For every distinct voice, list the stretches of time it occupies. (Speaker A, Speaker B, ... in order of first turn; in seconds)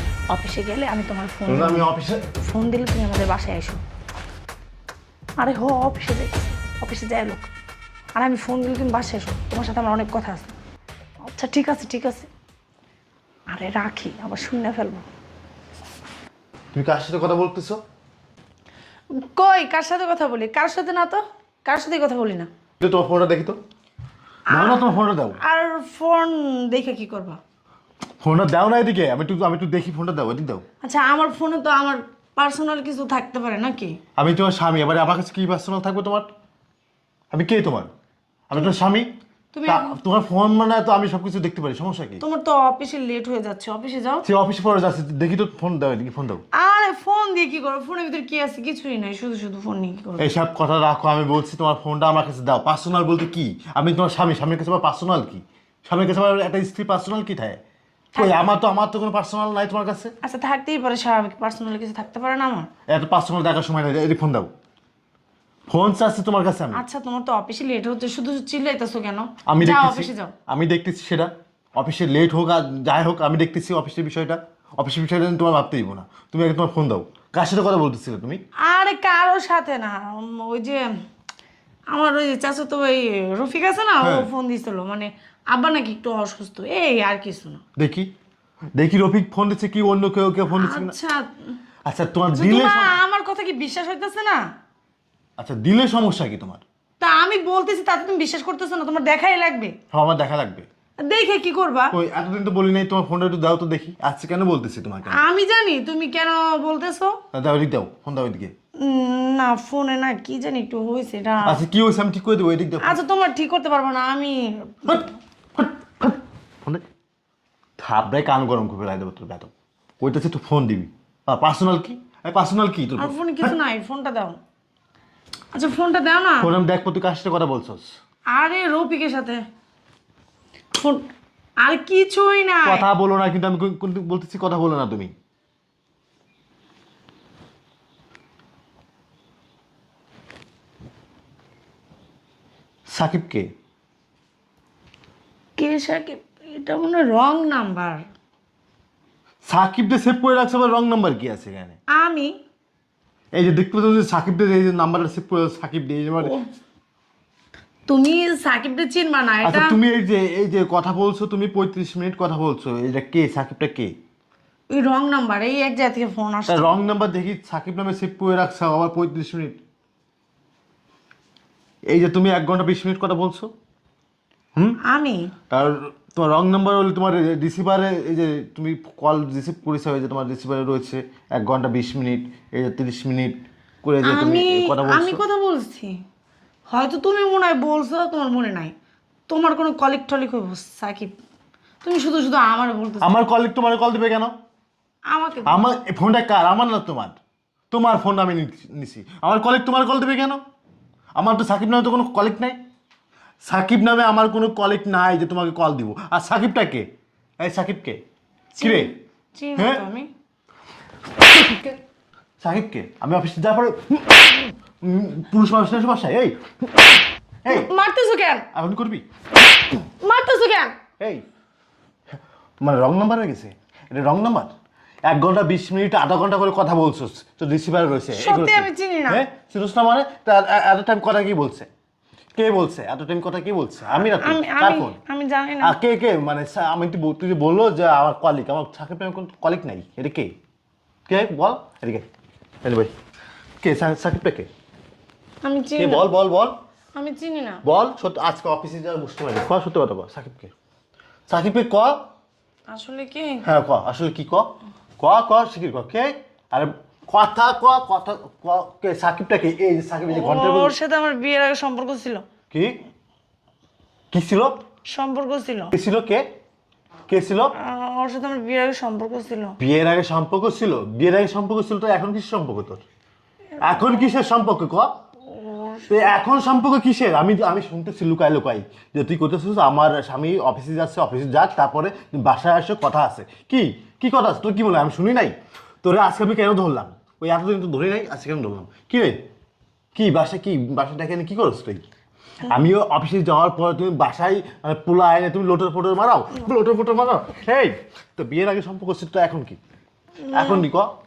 Speaker A: 0.3-1.9, 2.4-3.8, 5.4-7.5, 8.2-10.6, 11.2-12.3, 13.5-15.1, 19.1-22.5, 24.5-27.4, 30.8-34.0, 39.5-40.0, 42.2-44.2, 46.5-50.3, 58.2-58.5, 60.2-62.7, 66.7-70.3, 78.7-80.9, 81.9-87.6, 90.5-91.3, 92.3-94.4, 97.0-99.8, 101.0-102.0, 105.1-107.2, 108.8-111.6, 112.8-115.1, 123.0-124.4, 125.5-126.5, 128.3-129.4, 130.8-131.0, 131.6-132.9, 145.6-148.1, 151.9-152.4, 157.9-159.8, 164.7-166.8, 174.8-175.3, 184.0-186.0, 186.7-188.7, 189.3-191.2, 191.8-193.2, 195.1-195.6, 208.6-210.1, 217.5-218.4, 220.0-220.8, 228.1-229.2, 234.0-235.8, 245.4-246.1, 246.9-247.6, 252.7-253.4, 260.1-262.2, 264.9-265.7, 267.6-269.6, 273.6-274.1, 275.3-276.1, 300.3-300.6
Speaker B: 1.5-2.2, 16.7-17.8, 22.8-23.6, 24.5-25.4, 28.2-30.6, 34.2-36.3, 37.3-37.9, 38.5-39.1, 39.7-42.2, 44.2-46.4, 50.2-57.6, 58.1-60.1, 62.9-64.5, 65.7-66.8, 69.5-78.4, 84.0-84.3, 87.8-88.1, 88.8-91.0, 91.8-93.0, 95.4-96.6, 99.9-100.7, 101.9-105.2, 107.3-108.5, 111.4-113.0, 114.9-116.8, 117.8-123.6, 126.4-127.9, 132.6-135.1, 142.9-143.5, 149.4-151.8, 153.3-156.4, 159.4-163.9, 166.5-169.6, 171.9-173.5, 175.5-185.2, 193.0-194.3, 195.5-197.2, 197.7-200.4, 201.2-202.6, 203.4-206.9, 207.4-208.0, 208.6-208.9, 209.6-209.8, 211.2-211.8, 212.4-217.7, 218.5-219.1, 222.6-224.5, 225.1-231.7, 232.3-235.0, 235.6-240.3, 241.1-242.1, 242.6-242.9, 243.6-244.5, 245.8-246.6, 247.7-250.5, 251.3-252.0, 253.4-260.8, 262.5-262.8, 264.1-264.6, 265.7-266.2, 267.1-267.5, 269.6-272.8, 273.6-274.9, 275.9-289.2, 289.9-291.8, 292.4-299.6, 300.3-300.9